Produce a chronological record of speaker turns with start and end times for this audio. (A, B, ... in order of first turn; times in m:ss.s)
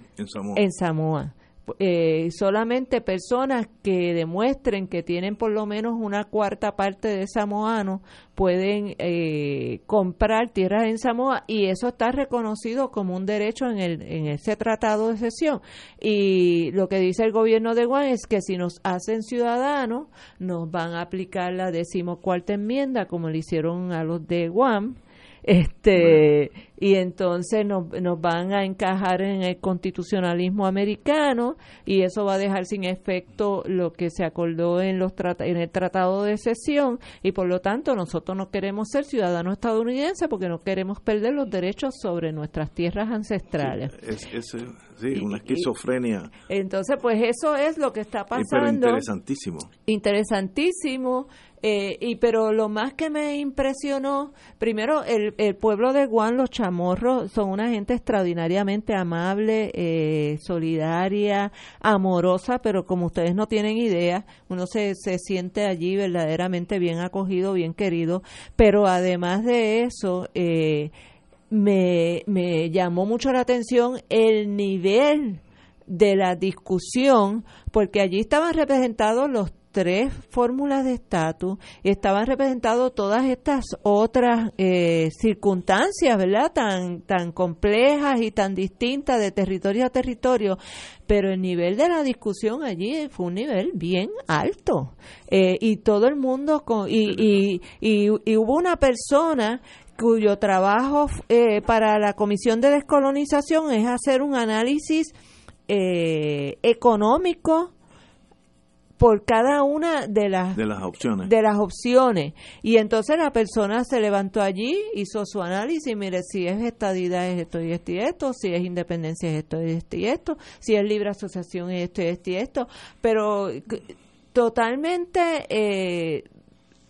0:00.2-0:00.6 A
0:00.5-0:43.9 B
0:43.6-0:46.3 A
0:45.2-0:45.6 B
0:46.5-0:49.0 B
0:48.4-0:49.7 A
0:49.9-1:10.9 B
1:11.5-1:45.1 B
1:45.7-1:47.7 B
1:49.0-1:50.6 B
1:50.6-1:51.3 A
1:51.2-2:06.2 B